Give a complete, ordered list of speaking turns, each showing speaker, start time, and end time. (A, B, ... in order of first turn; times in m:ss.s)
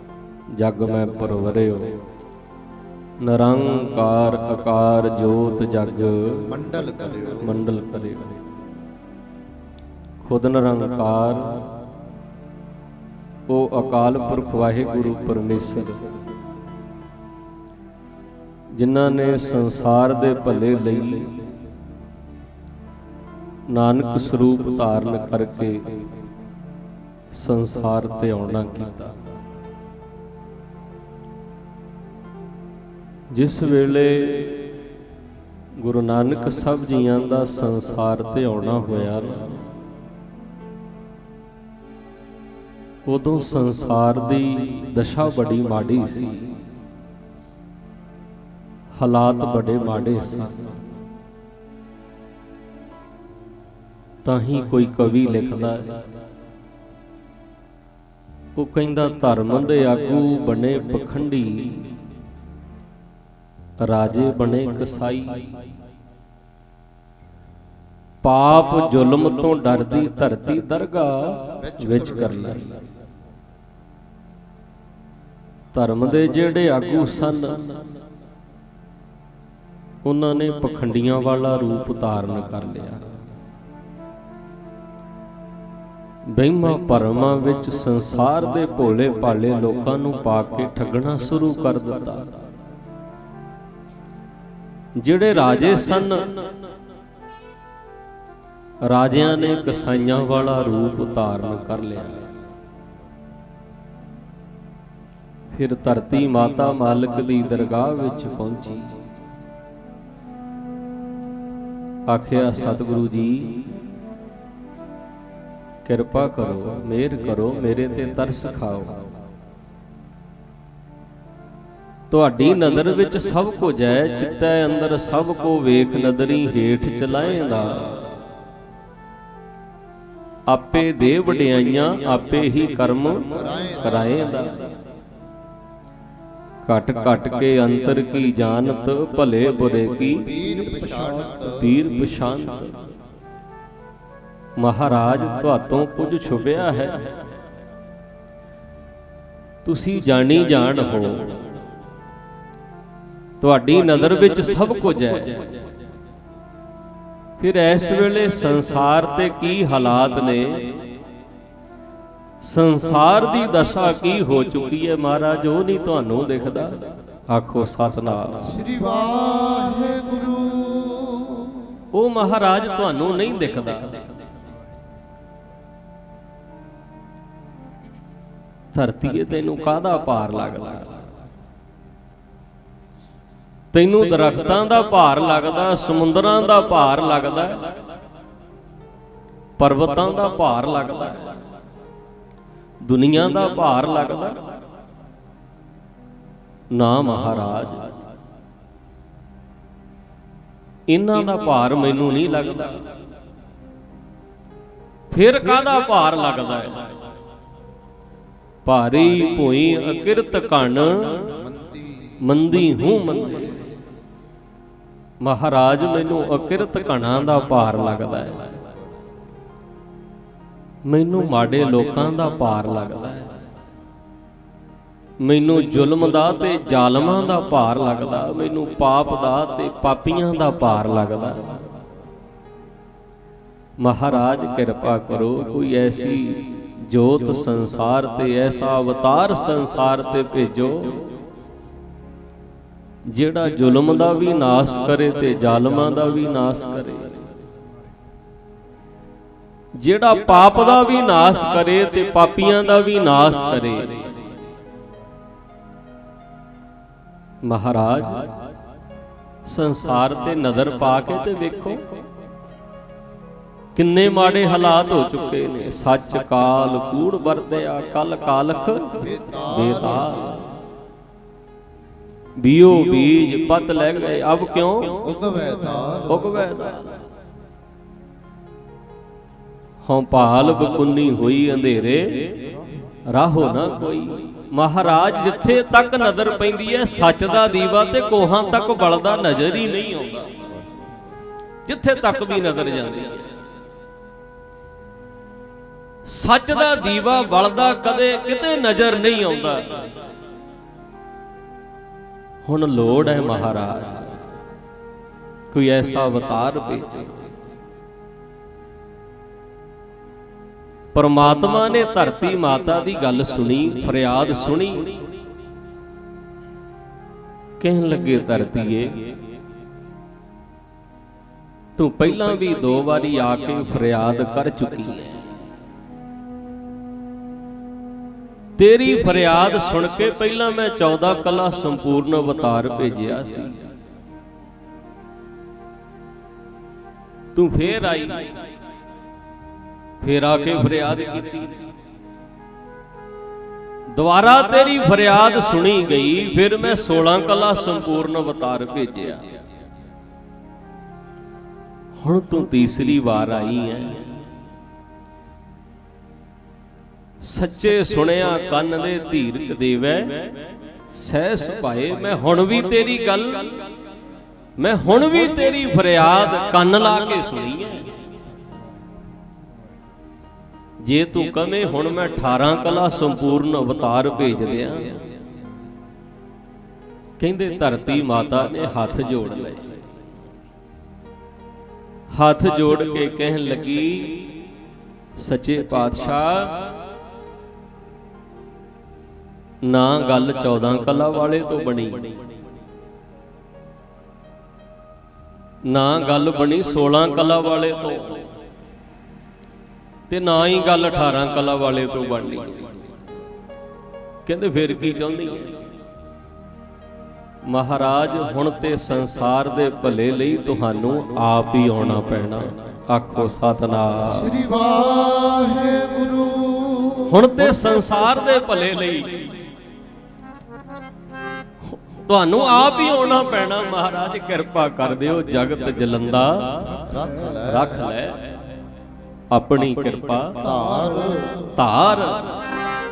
0:00.6-0:02.0 A
0:03.2-0:06.5 A
0:06.5-0:07.4 B
0:07.4-0:08.4 A
0:10.2-0:11.6 A
0:13.5-0:16.0 A
0:18.7-0:21.4 A
0:23.7-0:26.0 A
0:27.3-0:29.2 A
0:33.3-0:34.7 A
0:35.8-0:39.6 A
0:43.1-0:46.6 A
0:49.0-0:50.8 A
0:54.2-0:56.0 A
0:58.6-1:01.9 A
1:03.8-1:05.5 A
1:08.2-1:12.9 A
1:11.6-1:12.1 B
1:15.7-1:17.8 A
1:20.0-1:23.1 A
1:26.3-1:32.4 A
1:35.0-1:36.6 A
1:38.9-1:42.3 A
1:45.5-1:48.9 A
1:52.1-1:53.8 A
1:55.8-1:59.1 A
2:02.1-2:08.0 A
2:10.5-2:14.6 A
2:13.3-2:13.9 B
2:16.6-2:20.4 A
2:20.2-2:21.7 B
2:21.4-2:22.8 A
2:24.6-2:27.1 A
2:29.6-2:31.4 A
2:33.4-2:35.5 A
2:37.4-2:40.7 A
2:42.4-2:48.5 A
2:48.5-2:51.8 B
2:51.9-2:54.0 A
2:58.7-3:01.1 A
3:03.7-3:07.7 A
3:09.6-3:11.4 A
3:12.8-3:14.4 A
3:16.7-3:17.9 A
3:20.9-3:22.8 A
3:25.1-3:26.9 A
3:28.6-3:31.4 A
3:31.4-3:32.0 B
3:32.2-3:33.6 A
3:35.2-3:38.7 A
3:40.9-3:43.3 A
3:45.2-3:51.6 A
3:53.8-4:01.1 A
4:03.1-4:07.3 A
4:09.8-4:14.2 A
4:17.4-4:18.3 A
4:19.5-4:21.8 A
4:23.8-4:30.5 A
4:29.0-4:30.1 B
4:32.4-4:35.1 A
4:35.0-4:36.1 B
4:36.1-4:37.0 A
4:39.8-4:42.4 A
4:43.1-4:50.5 A
4:51.7-4:53.3 A
4:56.1-4:59.8 A
5:02.4-5:04.2 A
5:05.5-5:07.3 A
5:10.9-5:15.0 A
5:17.6-5:19.1 A
5:21.8-5:25.3 A
5:28.6-5:33.7 A
5:37.3-5:38.4 A
5:40.0-5:41.5 A
5:43.9-5:49.3 A
5:52.0-5:54.0 A
5:57.2-6:00.4 A
6:00.9-6:03.6 A
6:04.6-6:07.9 A
6:10.8-6:15.0 A
6:17.2-6:19.7 A
6:22.1-6:24.3 A
6:25.2-6:26.6 A
6:29.6-6:32.2 A
6:35.7-6:38.3 A
6:40.1-6:42.8 A
6:44.3-6:45.6 A
6:47.5-6:54.4 A
6:54.1-6:57.3 B
6:57.1-6:59.3 A
7:01.7-7:06.9 A
7:06.8-7:07.7 B
7:07.4-7:08.2 A
7:09.3-7:10.4 A
7:10.4-7:11.5 B
7:11.6-7:12.4 A